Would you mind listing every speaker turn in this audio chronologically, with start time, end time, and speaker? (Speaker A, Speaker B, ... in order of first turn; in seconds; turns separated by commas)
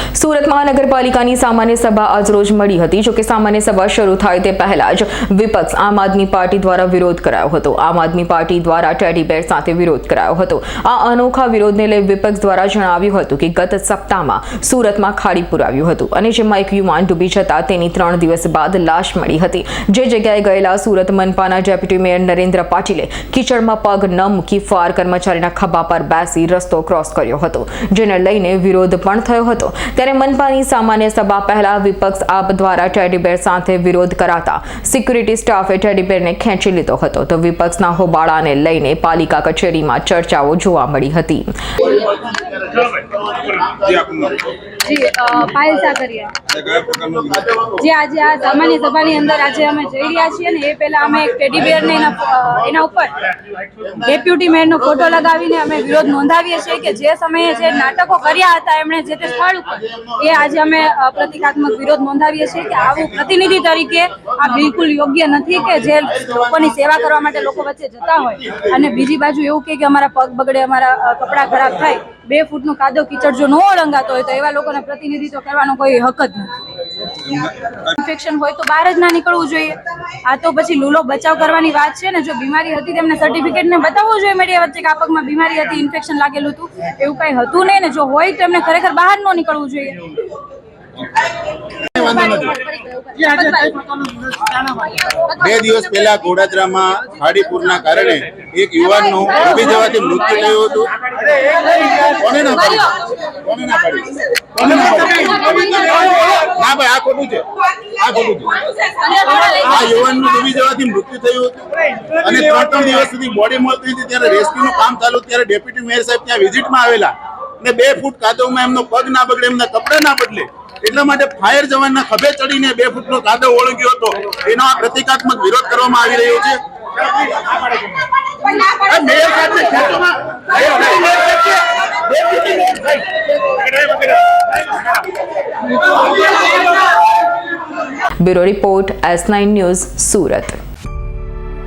Speaker A: 0.1-41.9, Speaker B: 43.3-44.5, Speaker C: 44.8-46.3, Speaker B: 46.5-47.7, Speaker C: 47.7-53.3, Speaker C: 53.8-76.5, Speaker C: 77.3-90.0, Speaker B: 92.0-92.5, Speaker C: 92.0-93.9, Speaker B: 95.3-100.9, Speaker B: 101.7-108.6, Speaker B: 109.4-111.6, Speaker B: 112.2-126.6, Speaker B: 128.5-134.1, Speaker A: 138.2-140.6